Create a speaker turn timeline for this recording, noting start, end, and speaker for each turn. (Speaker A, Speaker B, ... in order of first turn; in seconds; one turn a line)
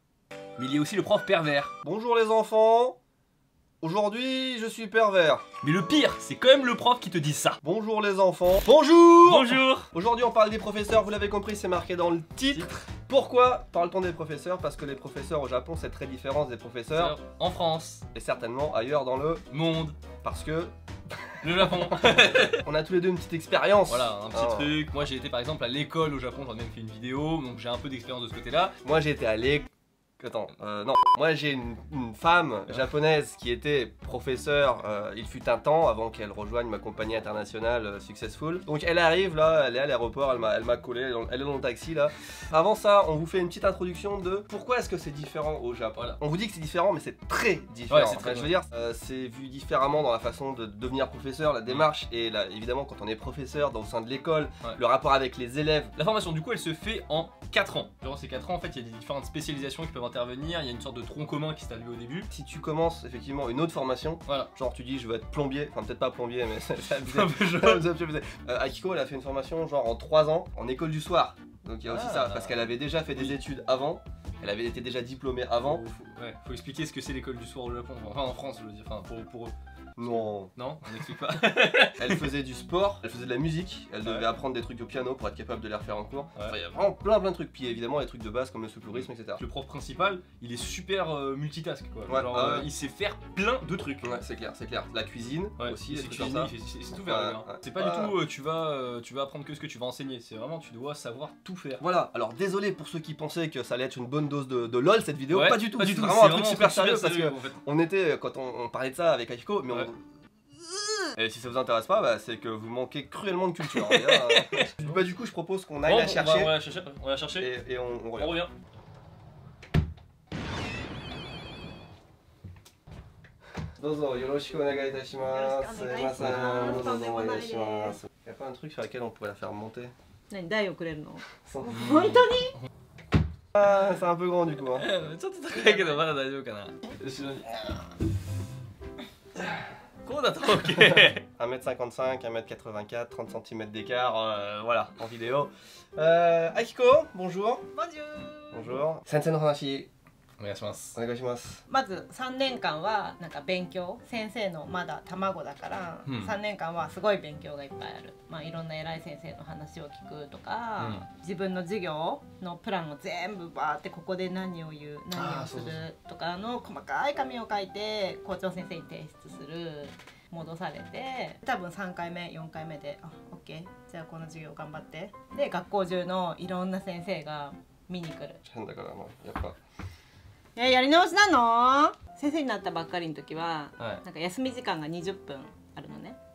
Speaker A: 0.6-1.7
Speaker B: 1.8-3.0
Speaker B: 3.8-5.5
Speaker A: 5.6-7.6
Speaker B: 7.6-17.2
Speaker A: 9.2-9.9
Speaker A: 12.5-12.8
Speaker A: 16.9-18.1
Speaker B: 18.1-19.4
Speaker A: 19.5-20.0
Speaker B: 20.2-20.7
Speaker A: 21.4-22.6
Speaker B: 21.4-24.8
Speaker A: 23.9-28.8
Speaker B: 28.8-29.7
Speaker B: 30.2-56.0
Speaker A: 47.9-48.6
Speaker A: 56.0-62.3
Speaker B: 62.3-75.8
Speaker A: 64.3-64.5
Speaker A: 67.0-67.9
Speaker A: 71.9-73.4
Speaker A: 75.6-82.3
Speaker B: 80.0-80.5
Speaker B: 82.0-89.4
Speaker A: 84.0-84.3
Speaker A: 88.9-94.2
Speaker B: 92.1-92.7
Speaker B: 94.0-98.2
Speaker A: 95.6-101.8
Speaker B: 101.8-110.0
Speaker A: 105.3-107.6
Speaker B: 111.2-116.6
Speaker A: 113.7-115.0
Speaker A: 115.8-117.5
Speaker B: 117.4-118.4
Speaker A: 118.2-118.5
Speaker B: 123.8-129.9
Speaker C: 125.3-128.0
Speaker A: 126.2-126.8
Speaker C: 130.3-132.5
Speaker B: 131.4-131.9
Speaker A: 131.7-132.6
Speaker B: 133.6-134.9
Speaker A: 134.6-137.7
Speaker C: 135.5-136.0
Speaker A: 140.0-141.2
Speaker B: 141.3-147.7
Speaker C: 147.7-148.7
Speaker B: 148.5-149.9
Speaker A: 150.4-151.0
Speaker B: 151.0-151.6
Speaker C: 151.7-178.4
Speaker A: 156.1-156.3
Speaker A: 160.8-161.1
Speaker A: 165.1-165.8
Speaker B: 178.4-179.6
Speaker C: 180.6-186.2